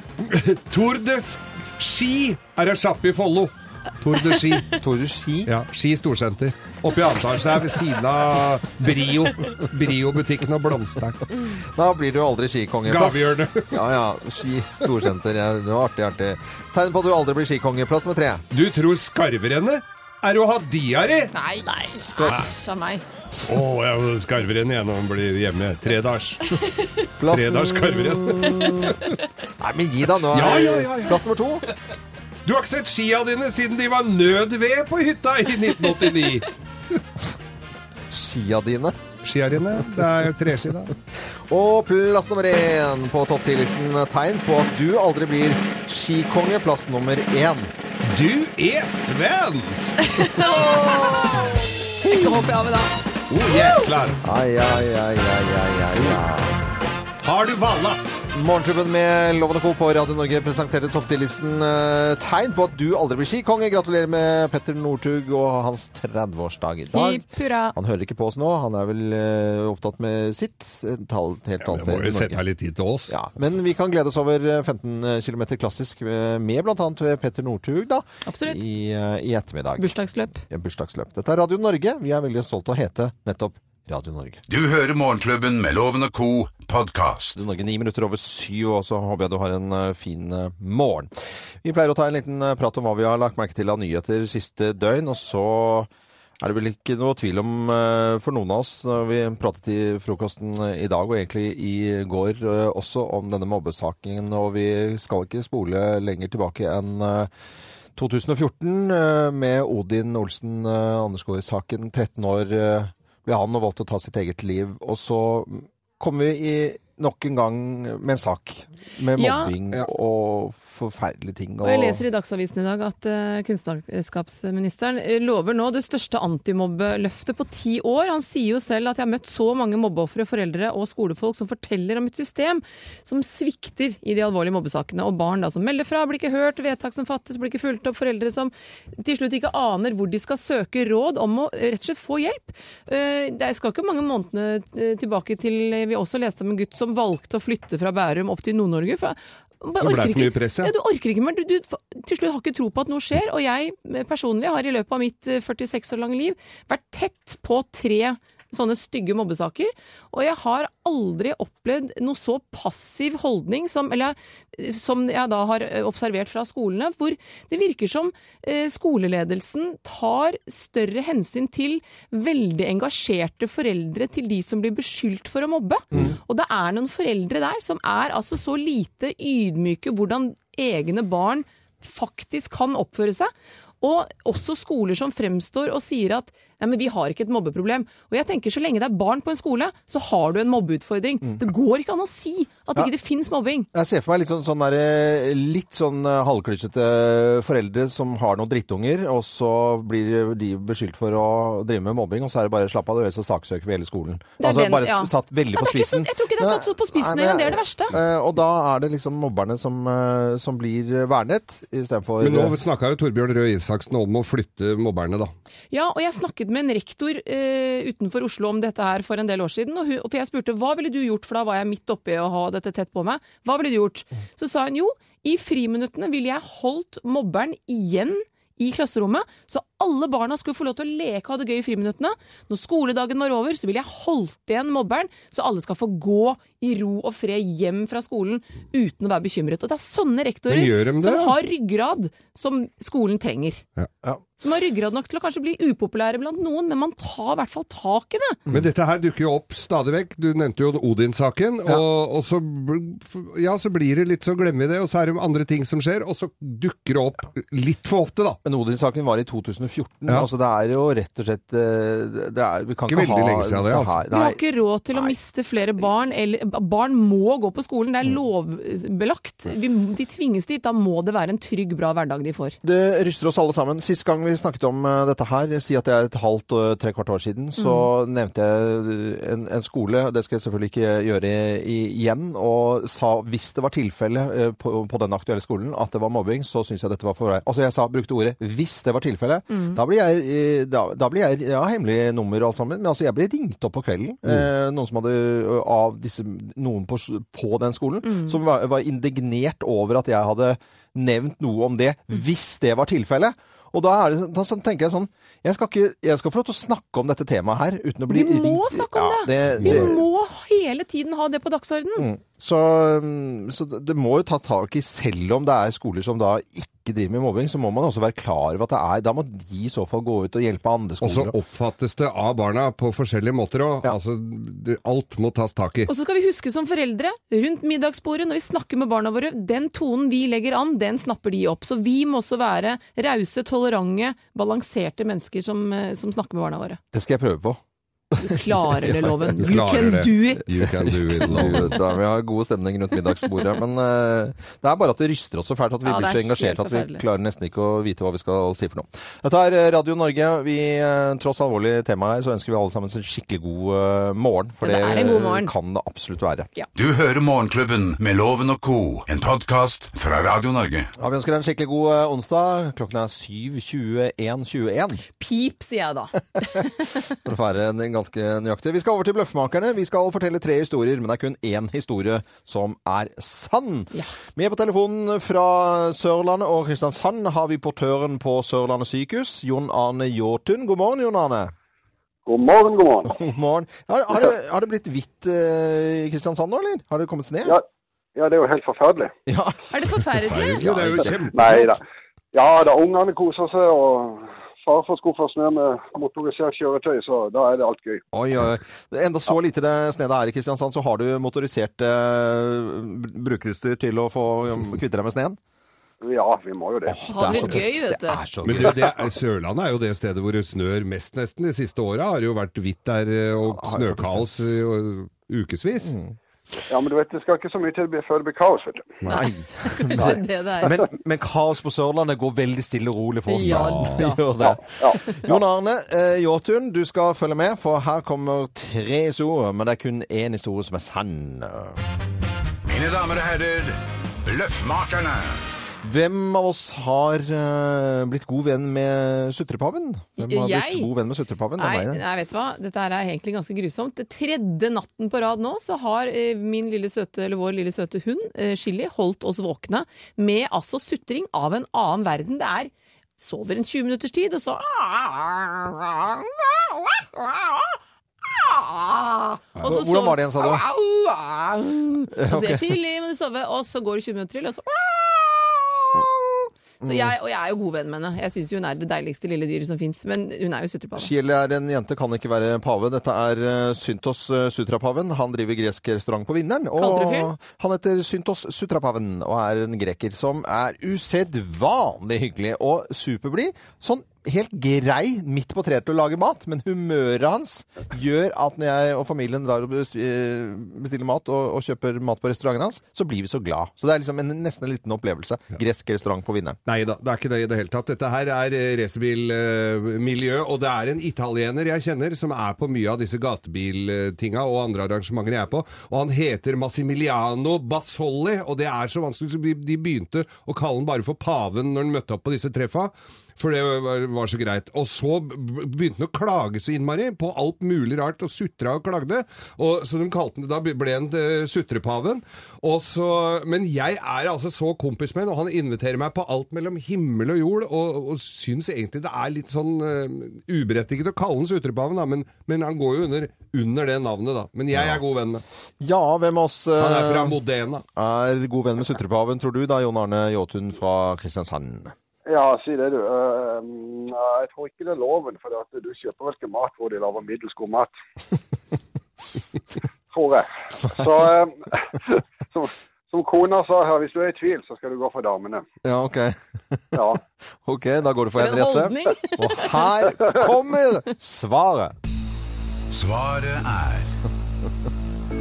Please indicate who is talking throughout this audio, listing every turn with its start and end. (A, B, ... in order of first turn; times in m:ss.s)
0:00.2-0:04.8 A
0:04.7-0:05.5 B
0:05.5-0:11.2 A
0:11.5-0:18.4 B
0:12.9-0:13.7 A
0:18.5-0:21.3 A
0:21.3-0:23.0 C
0:22.2-0:22.5 A
0:23.5-0:26.5 A
0:27.2-0:29.0 B
0:27.3-0:29.0 A
0:29.6-0:31.6 B
0:30.3-0:31.2 A
0:32.4-0:36.5 A
0:38.1-0:39.0 B
0:39.2-0:40.9 A
0:41.5-0:47.7 B
0:48.0-0:50.3 A
0:50.2-0:52.9 C
0:52.0-0:52.5 B
0:53.3-0:54.2 A
0:54.2-0:56.6 B
0:57.2-0:58.3 A
0:58.3-1:12.4 B
1:06.9-1:07.7 C
1:11.6-1:13.1 A
1:13.1-1:19.9 B
1:18.2-1:18.6 C
1:19.8-1:20.4 C
1:20.5-1:24.4 B
1:24.5-1:27.4 D
1:27.4-1:31.1 B
1:31.6-1:47.3 B
1:48.0-2:02.0 B
1:59.2-1:59.5 C
2:01.6-3:13.7 C
2:29.8-2:30.7 A
3:13.7-3:32.6 B
3:24.4-3:27.9 C
3:32.2-3:35.3 A
3:35.7-4:03.6 C
4:00.5-4:01.4 A
4:04.4-4:08.4 C
4:08.5-4:18.4 A
4:18.4-4:25.2 B
4:22.9-4:24.0 A
4:24.1-4:32.6 C
4:32.6-5:10.0 B
4:37.6-4:37.9 C
4:49.5-4:49.8 C
4:58.0-4:58.4 C
5:08.1-5:12.1 C
5:09.6-5:09.9 A
5:12.0-5:21.3 B
5:21.0-5:25.9 A
5:25.9-5:36.8 C
5:36.9-5:37.6 B
5:38.1-5:39.1 B
5:38.2-5:40.5 C
5:39.4-5:41.8 A
5:40.5-5:56.5 B
5:45.8-5:47.0 C
5:54.6-5:55.5 C
5:56.7-6:00.9 D
6:01.0-6:05.0 B
6:05.2-6:06.7 C
6:07.1-6:21.5 B
6:22.3-6:23.2 E
6:23.0-6:27.6 B
6:28.2-6:29.1 E
6:29.3-6:29.6 B
6:29.7-6:30.6 C
6:30.3-6:31.7 A
6:30.6-6:31.7 B
6:31.3-6:31.8 E
6:32.3-6:38.0 E
6:38.1-6:45.4 B
6:46.0-6:47.0 E
6:46.8-6:48.9 B
6:47.1-6:48.2 C
6:48.4-6:55.9 A
6:53.4-6:54.6 B
6:55.8-6:56.2 B
6:56.7-6:59.0 E
6:59.0-7:11.8 B
6:59.1-7:00.8 C
7:03.3-7:04.2 C
7:03.4-7:04.0 A
7:04.4-7:05.2 E
7:12.6-7:15.4 D
7:15.8-7:22.0 B
7:20.2-7:20.9 C
7:21.6-7:51.1 C
7:39.6-7:40.6 B
7:42.1-7:42.7 B
7:46.8-7:47.1 B
7:51.0-8:16.6 B
7:56.8-7:57.3 C
8:16.7-8:55.4 A
8:54.7-8:55.0 B
8:55.8-8:57.4 B
8:56.8-8:57.8 A
8:57.9-9:01.9 B
9:02.3-9:07.9 E
9:10.1-9:15.6 E
9:15.8-9:17.0 B
9:16.9-9:17.2 E
9:17.6-9:21.9 B
9:18.4-9:19.9 C
9:20.2-9:20.4 E
9:22.9-9:24.1 D